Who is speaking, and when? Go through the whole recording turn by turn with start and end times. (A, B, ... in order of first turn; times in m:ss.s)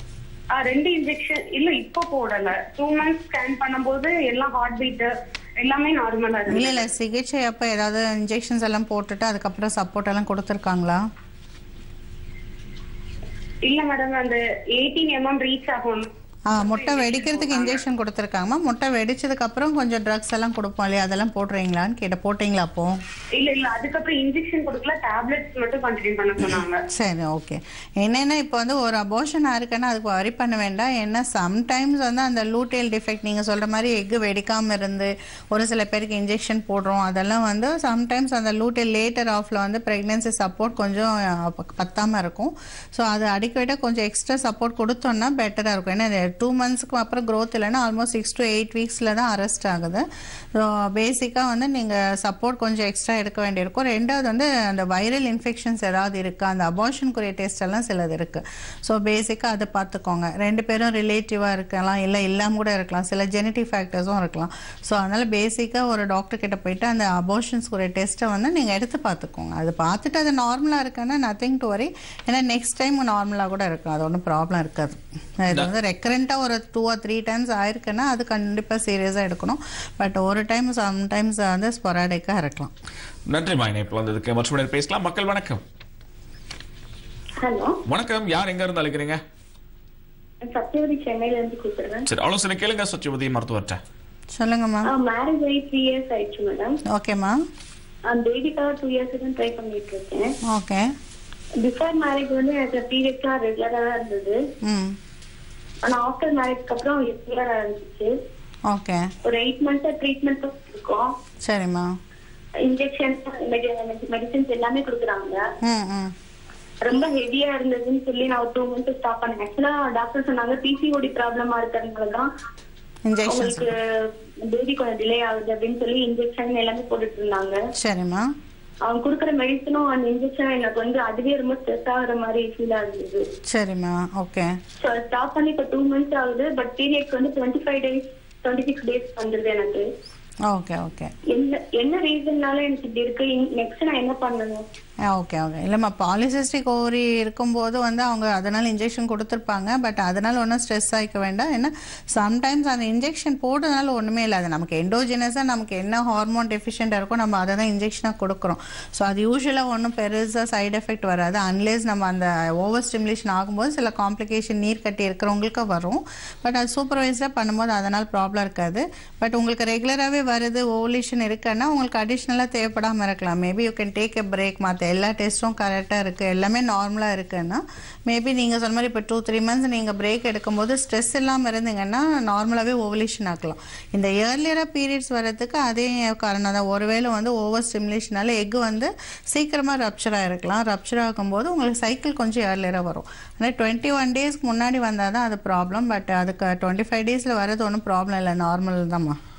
0:00.6-0:06.9 A
0:06.5-0:11.0 B
0:13.7-0:16.1 A
0:16.5-0:23.0 B
0:16.6-0:17.8 A
0:23.4-0:26.8 A
0:26.9-1:22.7 B
1:23.3-1:25.6 C
1:27.4-1:27.8 D
1:27.9-1:29.2 C
1:30.5-1:32.1 D
1:32.1-1:33.8 C
1:34.4-1:34.9 B
1:34.9-1:36.8 D
1:36.9-1:37.4 B
1:38.1-1:40.3 D
1:40.5-1:40.9 B
1:41.6-1:44.4 D
1:44.6-1:45.0 B
1:45.8-1:48.1 D
1:48.7-1:49.1 B
1:49.2-1:51.1 D
1:51.4-1:51.9 B
1:52.7-1:55.4 D
1:55.6-1:56.1 B
1:56.8-2:02.3 D
2:03.1-2:03.7 B
2:03.3-2:07.6 D
2:07.8-2:08.3 B
2:08.9-2:13.2 D
2:13.5-2:14.5 B
2:14.8-2:19.8 D
2:20.5-2:21.1 B
2:21.3-2:24.6 D
2:25.1-3:19.2 B